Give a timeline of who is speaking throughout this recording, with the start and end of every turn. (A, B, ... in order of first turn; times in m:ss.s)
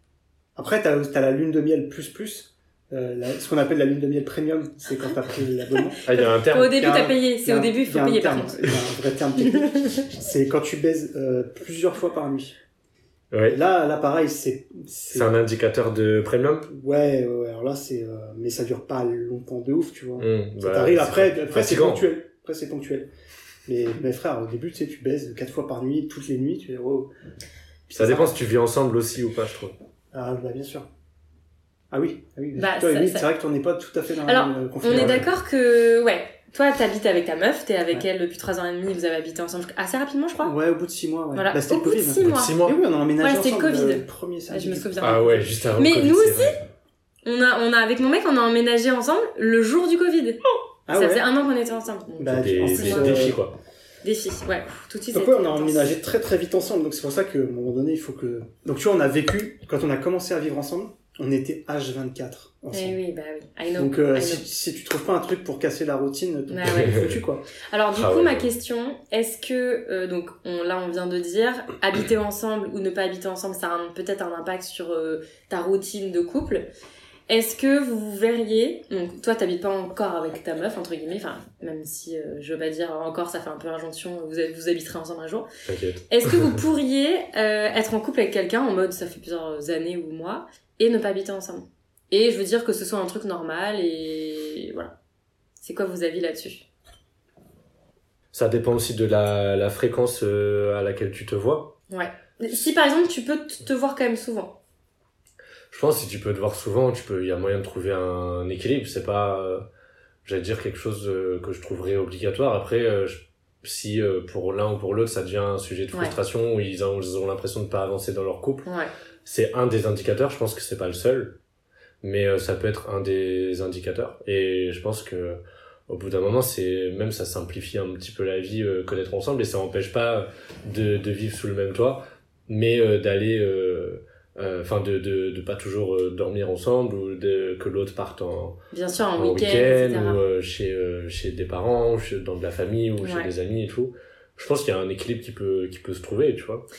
0:00.6-0:06.0 A
0:06.0-0:06.9 B
0:06.1-0:08.7 C
0:06.6-0:12.6 A
0:09.5-0:09.9 C
0:13.3-0:13.6 B
0:13.4-0:15.3 A
0:15.1-0:16.7 B
0:16.7-0:23.1 A
0:20.2-0:22.0 B
0:23.6-0:27.1 A
0:27.9-0:28.4 A
0:27.9-0:29.7 B
0:30.1-0:30.9 A
0:31.9-0:35.2 A
0:32.5-0:33.3 C
0:34.2-0:40.5 C
0:40.4-0:44.9 A
0:41.3-0:42.6 C
0:42.2-0:42.8 B
0:43.2-0:46.6 C
0:45.0-0:46.6 B
0:47.2-0:50.4 C
0:50.9-0:51.2 A
0:50.9-0:53.3 C
0:52.2-0:53.4 A
0:52.3-0:53.5 B
0:54.0-0:55.9 C
0:55.1-1:03.0 A
1:02.7-1:04.4 C
1:03.8-1:07.4 A
1:06.5-1:07.1 C
1:06.6-1:07.2 B
1:07.7-1:16.7 C
1:07.9-1:08.5 B
1:17.3-1:25.5 C
1:25.6-1:26.6 B
1:26.1-1:34.9 C
1:35.6-1:36.6 C
1:38.3-1:41.8 B
1:41.9-1:44.6 C
1:45.7-1:49.6 B
1:50.2-1:58.7 B
1:58.6-1:58.9 C
1:59.2-2:01.4 B
2:02.0-2:18.6 B
2:18.7-2:20.2 C
2:19.2-2:26.6 B
2:23.0-2:23.3 C